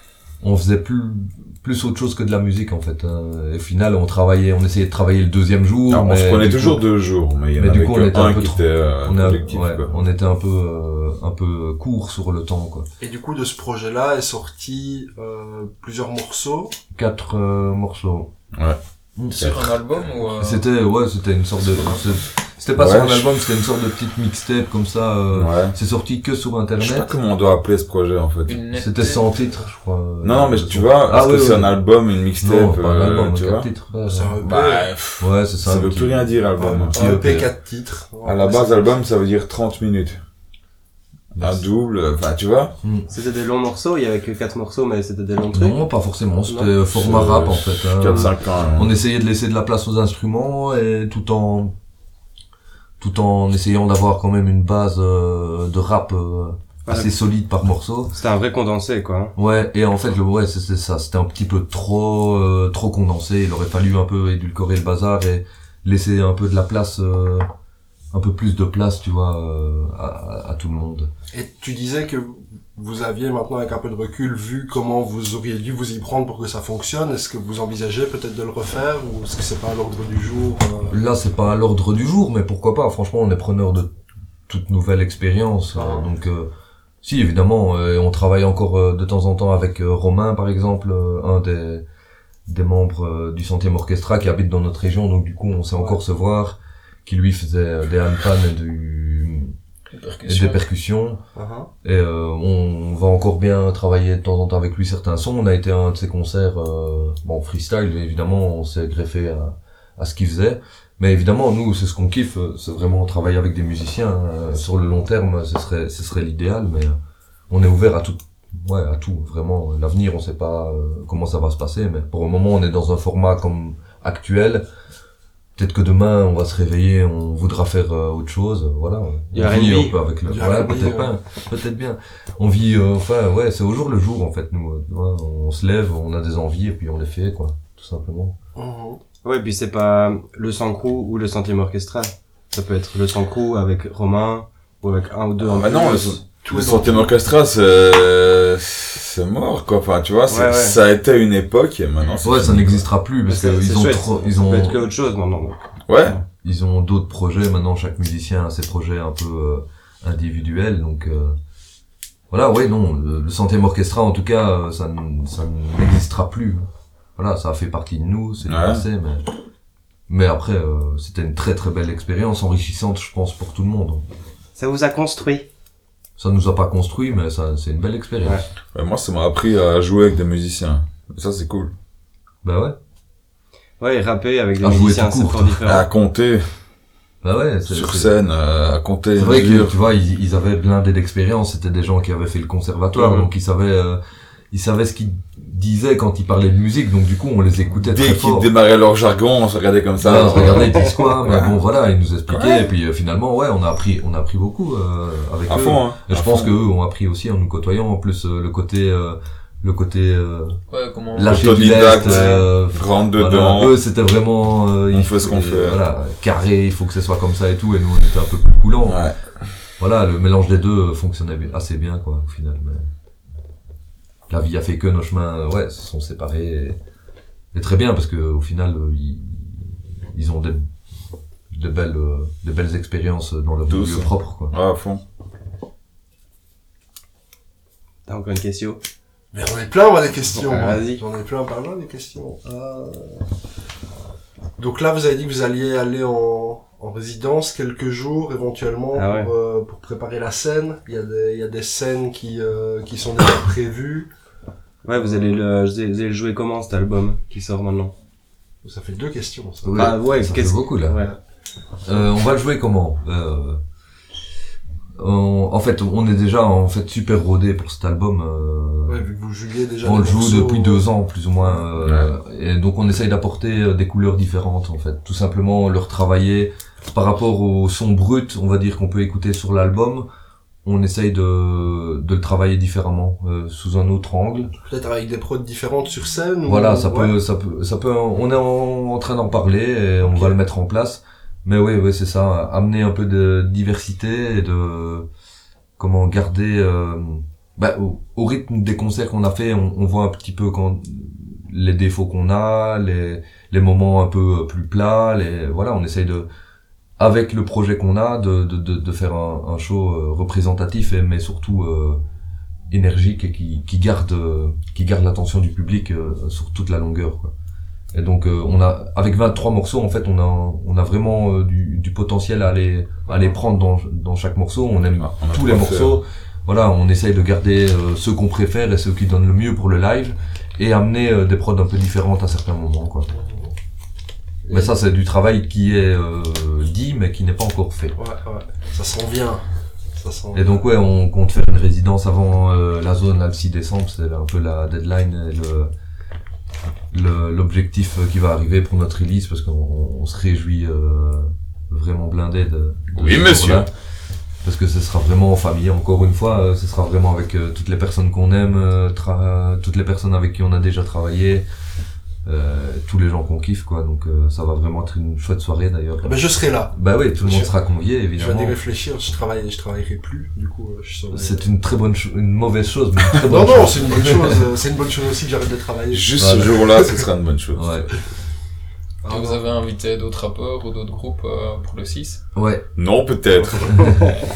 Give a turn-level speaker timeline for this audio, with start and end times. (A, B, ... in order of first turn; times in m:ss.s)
0:00.4-0:06.8 A
0:05.9-0:09.9 B
0:07.6-0:12.9 A
0:13.0-0:16.8 C
0:17.0-0:18.3 A
0:18.5-0:18.8 B
0:19.2-0:19.4 A
0:19.3-0:20.6 D
0:19.3-0:19.7 B
0:20.4-0:27.1 A
0:22.8-0:23.3 B
0:25.3-0:25.8 B
0:26.8-0:28.6 B
0:28.5-0:29.3 D
0:28.7-0:31.8 A
0:30.2-0:33.7 B
0:32.4-0:34.4 A
0:34.1-0:34.9 C
0:34.4-0:37.4 B
0:35.2-0:37.5 A
0:36.6-0:38.9 C
0:38.2-0:40.2 B
0:41.4-0:42.7 B
0:42.8-0:43.1 A
0:43.1-0:45.8 E
0:45.5-0:51.7 A
0:46.9-0:48.9 B
0:53.0-0:58.1 A
0:56.9-0:57.1 E
0:58.1-0:59.3 E
0:59.4-1:07.5 A
1:08.1-1:11.1 A
1:11.3-1:20.9 C
1:20.9-1:23.9 A
1:24.5-1:26.5 A
1:25.8-1:26.1 C
1:27.0-1:31.8 A
1:32.5-1:39.5 A
1:39.9-1:40.6 D
1:40.3-1:41.2 A
1:41.4-1:41.7 C
1:41.8-1:57.0 A
1:57.5-2:04.6 A
2:05.6-2:18.4 A
2:09.3-2:10.0 E
2:10.3-2:11.1 C
2:18.6-2:19.0 C
2:19.2-2:26.2 E
2:25.4-2:32.9 B
2:26.5-2:27.1 C
2:30.3-2:30.8 E
2:32.2-2:34.8 A
2:33.3-2:36.2 E
2:35.9-2:36.2 B
2:36.4-2:41.4 A
2:42.3-2:49.3 A
2:48.4-2:48.8 B
2:50.1-2:54.0 A
2:54.6-2:55.5 E
2:56.2-2:58.4 A
2:58.7-3:01.7 B
3:02.4-3:02.8 A
3:03.8-3:05.9 E
3:04.6-3:05.6 A
3:05.6-3:06.4 B
3:07.2-3:08.1 A
3:07.7-3:09.8 B
3:09.2-3:14.0 A
3:14.5-3:18.5 A
3:17.7-3:21.6 B
3:20.0-3:30.6 A
3:20.5-3:20.9 E
3:22.3-3:22.7 B
3:25.5-3:26.6 B
3:30.7-3:32.5 D
3:31.1-3:39.0 A
3:31.2-3:33.8 B
3:34.9-3:35.8 B
3:38.9-3:39.2 B
3:39.8-3:42.9 A
3:44.3-3:46.8 A
3:47.5-3:50.7 A
3:51.5-3:54.5 A
3:53.7-3:55.0 B
3:58.1-3:58.8 E
3:59.3-4:03.2 C
4:00.4-4:01.0 E
4:04.6-4:14.1 C
4:08.9-4:09.3 E
4:14.8-4:17.9 E
4:15.0-4:15.4 C
4:18.6-4:19.9 C
4:19.6-4:21.0 A
4:19.8-4:21.1 E
4:21.8-4:23.6 A
4:25.0-4:29.1 A
4:28.9-4:30.9 C
4:29.8-4:40.1 A
4:31.8-4:32.1 B
4:40.6-4:44.5 A
4:44.7-4:47.1 C
4:46.5-4:55.1 A
4:50.0-4:50.4 C
4:55.8-5:06.3 A
5:07.0-5:12.0 A
5:12.7-5:17.3 A
5:17.9-5:33.1 A
5:23.1-5:23.4 C
5:25.0-5:26.0 B
5:33.1-5:33.5 C
5:34.5-5:34.7 C
5:34.5-5:38.0 A
5:38.0-5:39.4 C
5:40.0-5:40.6 C
5:40.3-5:45.7 A
5:46.9-5:53.7 A
5:53.0-5:53.7 B
5:54.4-6:01.4 A
6:02.2-6:08.6 A
6:06.0-6:07.5 C
6:08.2-6:11.5 C
6:11.1-6:14.5 A
6:13.2-6:17.0 C
6:15.9-6:17.9 B
6:16.2-6:16.6 A
6:17.6-6:17.9 A
6:19.0-6:19.5 C
6:19.1-6:22.2 D
6:22.4-6:22.7 A
6:22.8-6:23.9 B
6:23.6-6:24.2 A